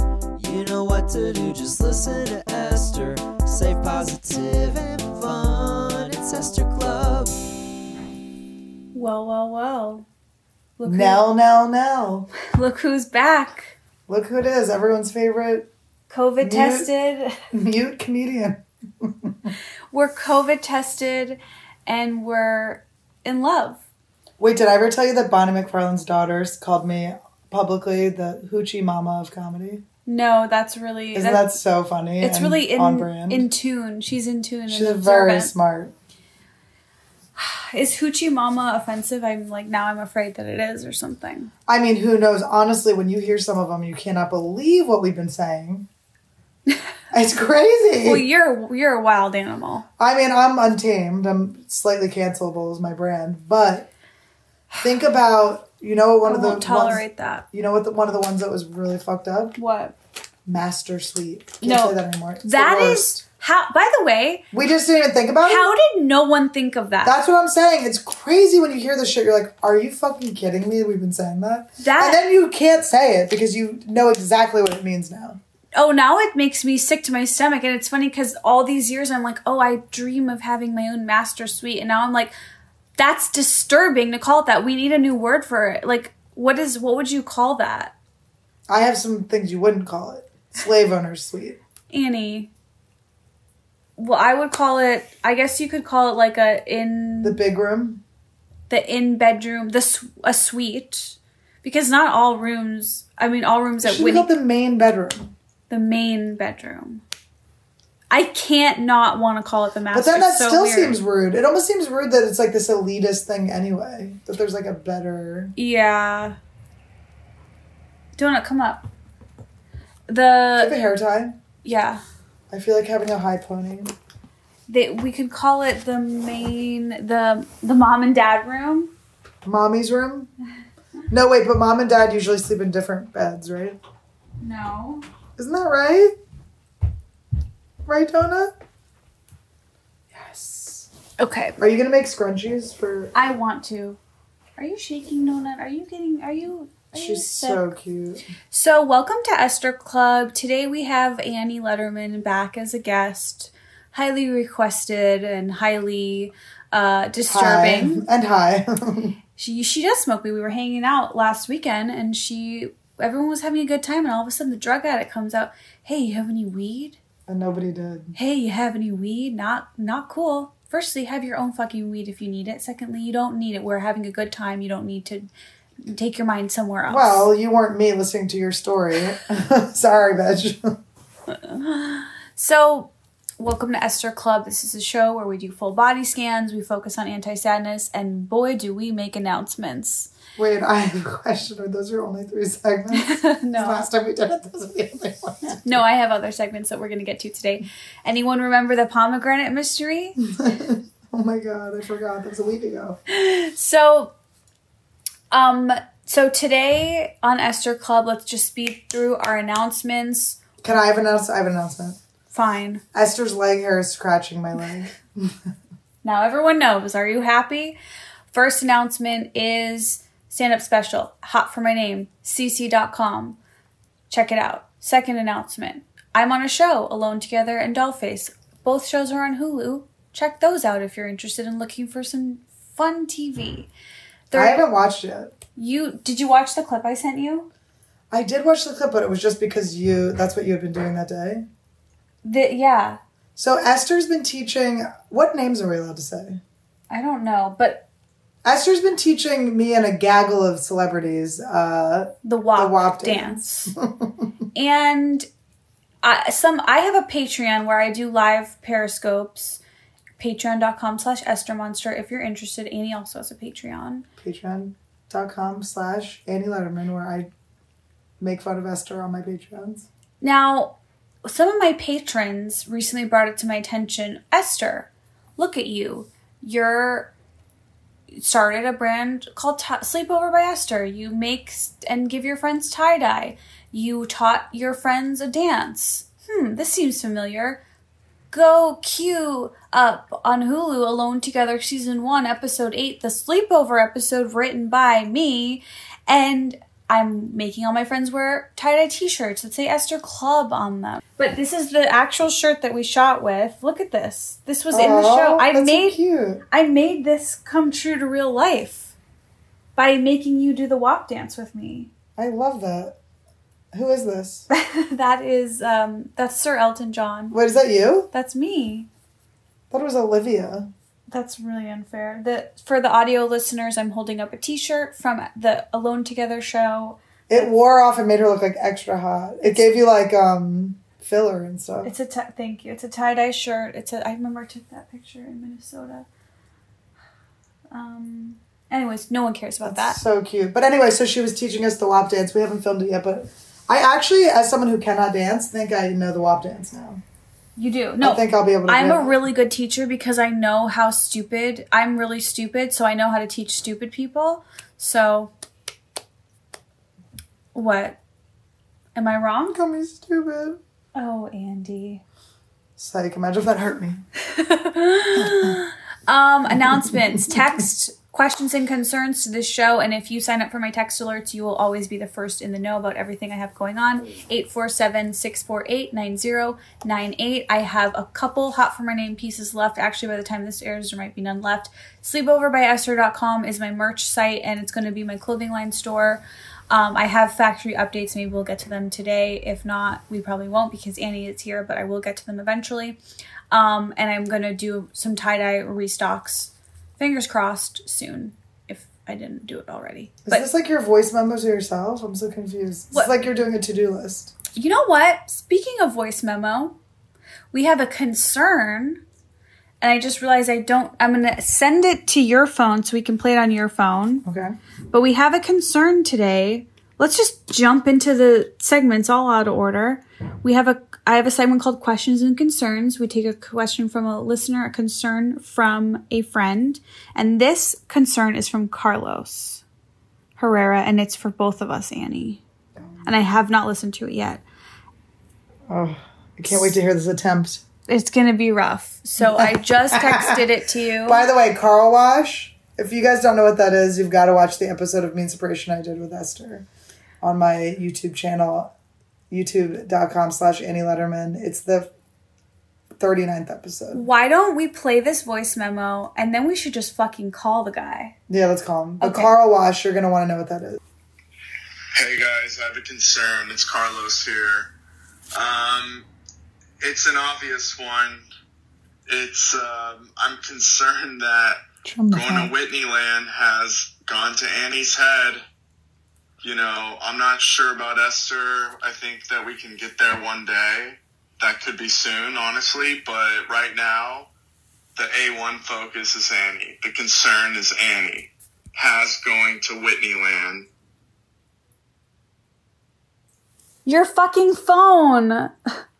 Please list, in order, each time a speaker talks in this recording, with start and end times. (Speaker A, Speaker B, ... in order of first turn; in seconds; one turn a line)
Speaker A: 0.4-7.3
Speaker B: 8.9-10.0
Speaker B: 10.8-11.2
Speaker C: 10.8-12.3
Speaker B: 12.5-13.7
Speaker C: 14.1-15.7
Speaker B: 16.1-17.4
Speaker C: 16.4-16.9
Speaker C: 17.5-19.5
Speaker B: 19.9-23.8
Speaker C: 24.4-29.8
Speaker B: 30.1-31.5
Speaker C: 31.1-33.5
Speaker B: 32.2-35.5
Speaker C: 34.7-35.9
Speaker B: 37.4-41.5
Speaker C: 41.7-45.9
Speaker C: 47.1-48.2
Speaker B: 48.0-49.8
Speaker C: 50.0-53.9
Speaker C: 54.8-59.5
Speaker B: 56.2-57.4
Speaker B: 59.5-60.0
Speaker C: 60.5-63.2
Speaker B: 61.6-64.4
Speaker C: 64.5-65.7
Speaker B: 65.4-67.2
Speaker C: 67.0-75.4
Speaker B: 71.8-72.2
Speaker B: 75.7-82.3
Speaker B: 83.0-87.9
Speaker C: 88.7-91.6
Speaker B: 91.9-92.5
Speaker B: 94.0-97.4
Speaker C: 97.2-98.0
Speaker B: 98.7-104.3
Speaker C: 103.8-105.3
Speaker B: 105.7-107.0
Speaker B: 108.1-111.0
Speaker C: 109.9-115.5
Speaker B: 115.5-116.4
Speaker B: 118.2-118.8
Speaker B: 120.1-120.8
Speaker C: 120.6-121.3
Speaker B: 121.6-122.0
Speaker C: 122.5-123.9
Speaker B: 124.7-128.9
Speaker C: 129.4-130.3
Speaker C: 131.1-133.8
Speaker B: 134.4-135.0
Speaker C: 135.4-136.1
Speaker C: 137.8-138.5
Speaker C: 140.1-140.9
Speaker B: 141.2-141.6
Speaker C: 141.6-143.1
Speaker B: 143.1-144.0
Speaker B: 144.6-147.6
Speaker C: 146.9-148.2
Speaker B: 148.5-158.0
Speaker C: 157.3-159.2
Speaker B: 159.4-167.0
Speaker C: 167.3-168.1
Speaker B: 168.1-175.3
Speaker B: 175.8-177.3
Speaker C: 176.9-180.8
Speaker B: 181.3-190.1
Speaker C: 190.3-195.8
Speaker B: 192.9-193.9
Speaker B: 195.6-200.2
Speaker C: 200.2-203.0
Speaker B: 203.1-204.1
Speaker B: 205.3-210.4
Speaker C: 210.6-212.0
Speaker B: 212.3-212.8
Speaker C: 212.9-215.3
Speaker B: 216.0-217.8
Speaker B: 218.3-223.4
Speaker B: 224.1-233.7
Speaker B: 234.3-234.6
Speaker C: 234.3-235.3
Speaker B: 235.6-237.5
Speaker C: 238.1-241.4
Speaker B: 242.2-243.0
Speaker C: 243.3-246.4
Speaker B: 246.9-247.8
Speaker C: 248.4-254.3
Speaker B: 252.2-253.7
Speaker B: 254.5-255.2
Speaker B: 256.0-259.6
Speaker B: 260.2-264.1
Speaker C: 264.2-267.3
Speaker C: 268.2-269.9
Speaker B: 270.2-277.1
Speaker B: 278.1-287.6
Speaker B: 288.3-305.9
Speaker C: 304.7-306.4
Speaker B: 306.5-308.9
Speaker B: 309.8-311.9
Speaker C: 312.2-312.9
Speaker C: 313.7-314.4
Speaker B: 314.5-317.4
Speaker C: 317.3-318.1
Speaker B: 318.1-318.9
Speaker C: 319.7-320.7
Speaker B: 321.1-327.0
Speaker C: 327.3-331.9
Speaker B: 331.8-336.1
Speaker B: 337.7-340.0
Speaker C: 339.6-347.0
Speaker B: 347.6-355.3
Speaker C: 348.0-349.2
Speaker B: 357.5-358.0
Speaker B: 358.9-359.6
Speaker C: 359.5-360.6
Speaker B: 360.9-362.0
Speaker C: 362.8-364.0
Speaker B: 364.3-393.0
Speaker C: 365.1-365.6
Speaker C: 366.5-367.4
Speaker B: 393.5-400.5
Speaker C: 400.2-404.3
Speaker B: 404.5-406.8
Speaker B: 407.5-409.0
Speaker B: 409.8-414.2
Speaker C: 414.2-414.5
Speaker B: 414.9-429.6
Speaker B: 430.4-432.4
Speaker B: 433.0-434.4
Speaker C: 435.7-437.6
Speaker B: 436.5-436.7
Speaker B: 437.9-441.3
Speaker C: 439.2-440.4
Speaker C: 441.1-446.7
Speaker C: 447.2-448.7
Speaker C: 449.3-451.9
Speaker C: 452.9-454.0
Speaker B: 453.9-458.1
Speaker C: 458.3-460.8
Speaker B: 459.0-459.3
Speaker D: 461.9-464.7
Speaker D: 465.3-466.1
Speaker D: 466.8-468.2
Speaker D: 469.1-471.6
Speaker C: 471.8-472.5
Speaker D: 472.1-475.4
Speaker D: 476.4-484.3
Speaker D: 485.0-490.7
Speaker B: 493.8-495.5